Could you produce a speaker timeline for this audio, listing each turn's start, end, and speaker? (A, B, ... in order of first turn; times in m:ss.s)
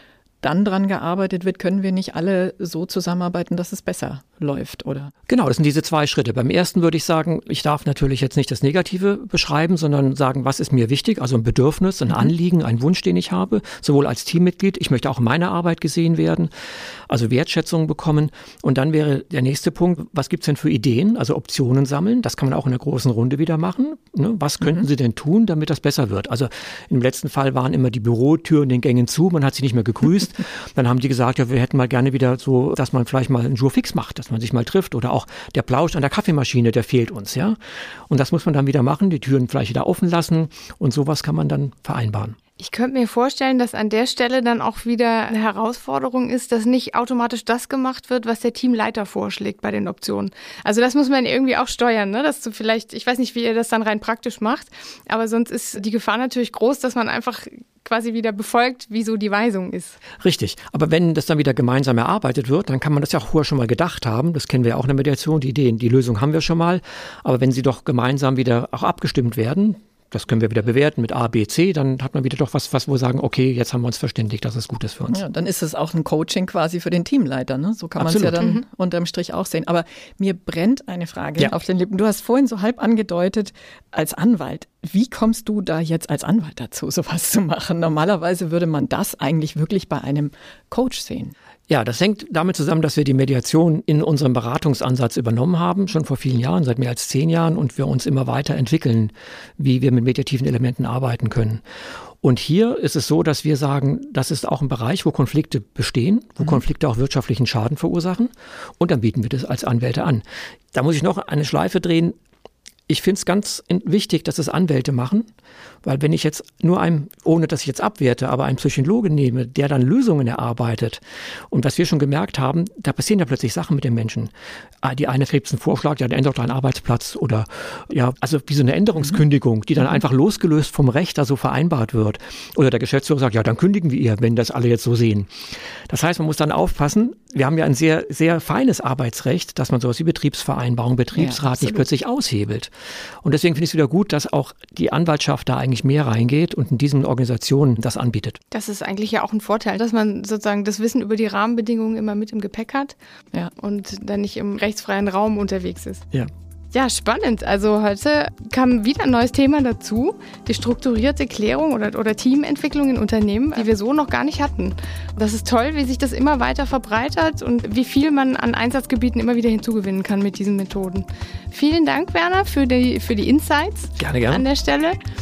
0:00.4-0:05.1 A
0:05.3-0:16.5 B
0:17.1-0:37.6 B
0:38.1-0:42.4 B
0:42.6-1:00.0 C
1:00.2-1:15.2 B
1:15.1-1:31.3 A
1:18.0-1:18.4 B
1:31.7-1:41.6 B
1:42.2-1:52.2 B
1:52.9-1:55.3 B
1:55.8-2:15.3 B
2:15.9-2:22.7 B
2:21.1-2:21.8 A
2:23.2-2:28.4 B
2:28.5-2:32.9 C
2:33.6-2:36.0 C
2:36.7-2:55.0 C
2:54.0-2:54.4 B